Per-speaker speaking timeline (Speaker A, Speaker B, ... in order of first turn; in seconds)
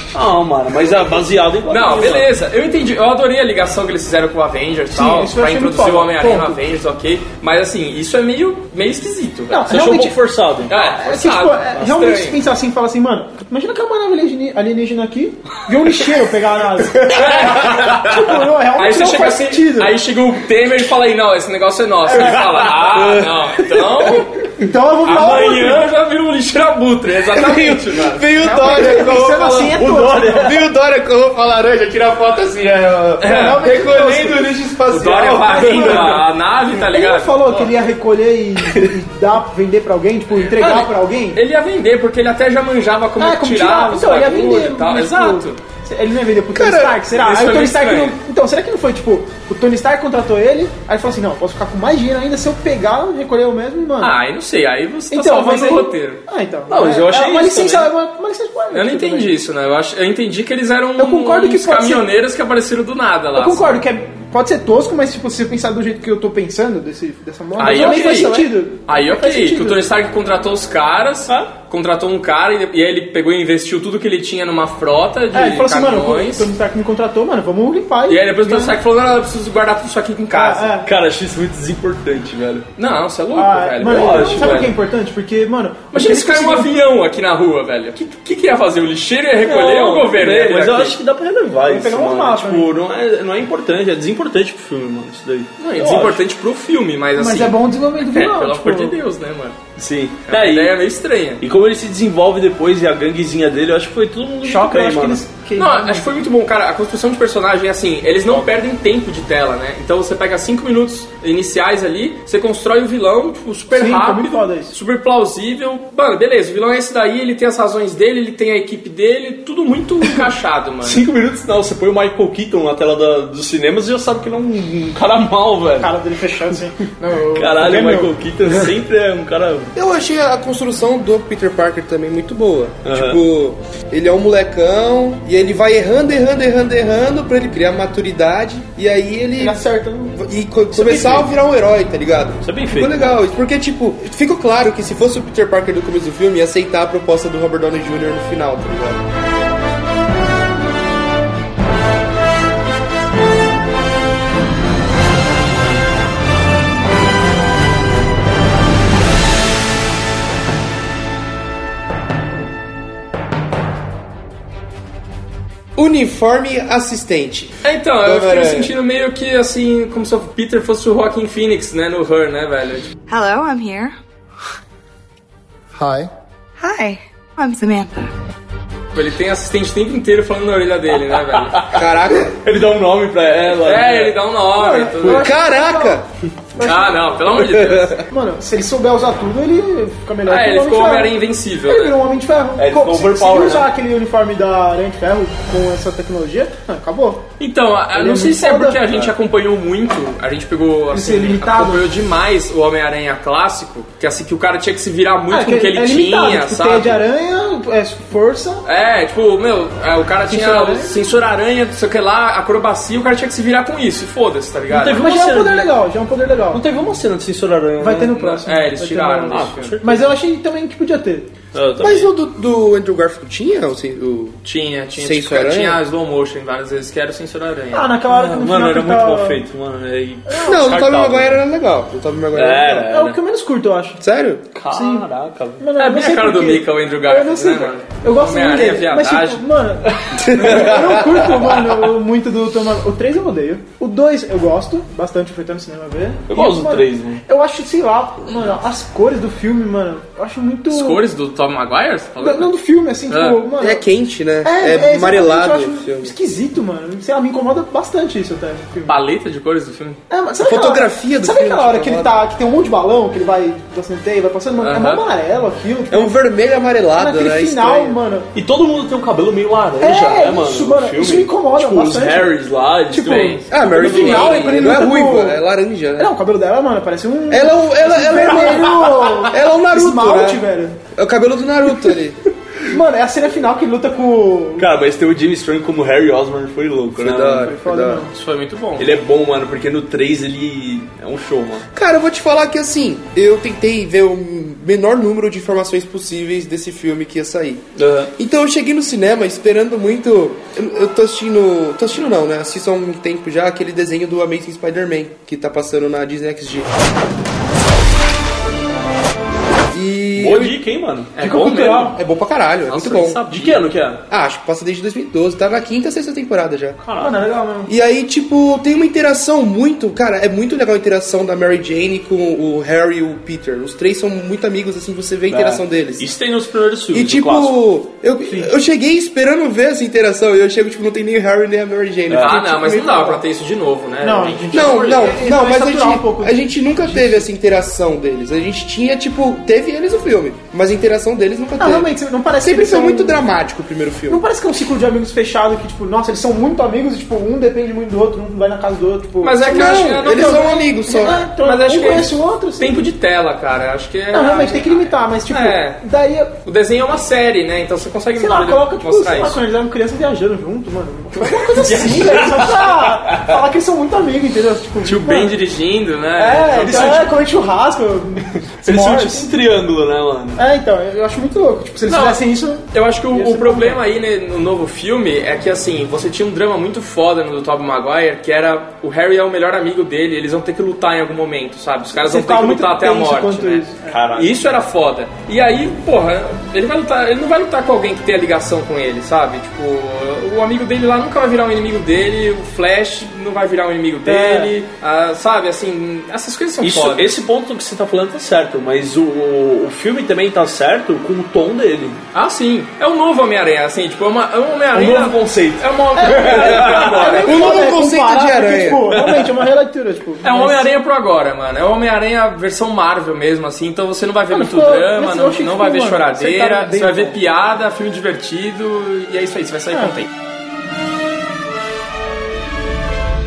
Speaker A: 0.1-2.3, 9.7-10.7, 22.1-24.2, 29.8-30.6, 56.7-57.9, 67.7-68.3, 80.8-82.7, 83.8-84.7, 89.4-96.1, 99.8-100.8, 101.4-105.2, 120.8-125.9, 127.3-129.7, 132.8-133.2, 142.4-143.2, 181.1-184.2, 192.6-193.7, 214.7-215.7, 216.5-218.2, 219.3-220.1, 221.5-222.1, 228.1-231.4, 232.3-233.2, 234.6-235.6, 246.3-247.2, 268.4-274.5, 284.6-287.5, 288.8-291.7, 297.8-298.1, 310.2-311.9, 313.3-314.0, 316.8-317.2, 325.3-327.6, 332.1-332.4, 361.7-363.2, 366.6-367.1, 368.6-370.4, 383.9-384.5, 396.6-402.0, 404.7-407.3, 408.9-409.5
Speaker B: 1.7-9.8, 10.7-12.4, 17.1-24.5, 25.0-28.3, 33.2-33.7, 34.9-37.7, 40.3-45.6, 47.1-48.2, 54.0-56.2, 58.7-63.8, 67.6-76.5, 78.1-80.8, 82.8-84.7, 85.9-91.0, 95.6-99.6, 100.3-101.4, 105.6-121.0, 167.6-172.9, 178.9-181.6, 183.5-185.3, 186.6-188.0, 190.2-192.0, 197.4-207.0, 208.7-215.0, 218.1-219.8, 224.4-227.9, 235.8-239.4, 250.7-252.5, 253.1-253.5, 258.9-260.0, 264.6-265.1, 273.1-274.8, 288.1-289.0, 311.2-312.0, 312.7-313.6, 332.2-335.1, 349.2-355.8, 356.4-359.4, 361.1-362.5, 364.8-367.1, 371.9-397.1, 402.1-407.5, 410.2-420.1
Speaker C: 4.9-6.6, 9.5-10.2, 10.7-19.9, 22.1-22.4, 24.6-25.9, 28.4-30.6, 33.3-34.6, 35.5-36.2, 36.7-41.4, 43.2-54.1, 55.1-59.4, 61.0-62.1, 63.4-69.9, 75.3-78.8, 80.3-80.9, 83.3-86.7, 91.7-92.7, 95.8-96.2, 97.2-99.0, 104.4-106.2, 113.7-114.8, 125.8-128.1, 139.4-140.2, 140.7-141.3, 184.6-186.0, 186.6-187.3, 188.1-197.3, 197.9-198.9, 200.9-201.8, 205.3-208.6, 210.3-211.0, 214.9-216.6, 217.8-221.3, 227.7-229.4, 230.3-230.6, 232.9-234.0, 234.7-235.1, 235.6-251.0, 252.2-253.8, 254.4-259.0, 260.1-266.2, 267.0-268.3, 269.8-272.3, 272.9-275.4, 276.0-280.8, 282.7-284.7, 287.4-288.1, 311.2-311.9, 317.0-317.7, 332.6-333.2, 334.0-337.2, 341.6-343.3, 344.1-352.9, 354.1-356.4, 358.2-365.4, 366.2-369.3, 370.4-373.8, 381.9-384.0, 394.1-394.5, 406.0-410.7, 414.3-417.2, 419.7-420.0
Speaker D: 27.3-36.3, 46.5-47.0, 129.8-139.6, 140.1-149.0, 165.8-168.7, 181.7-182.3, 185.1-186.1, 221.8-224.4, 225.0-225.8, 230.4-232.9, 234.0-234.5, 240.2-241.0, 253.6-256.1, 260.4-262.2, 265.9-268.0, 273.5-276.1, 277.3-282.2, 287.0-288.0, 291.7-297.6, 298.2-306.7, 309.7-310.6, 311.9-313.2, 314.1-316.8, 317.7-326.1, 326.9-332.9, 334.5-344.2, 349.4-351.2, 407.2-408.9
Speaker E: 173.1-173.9, 176.6-178.1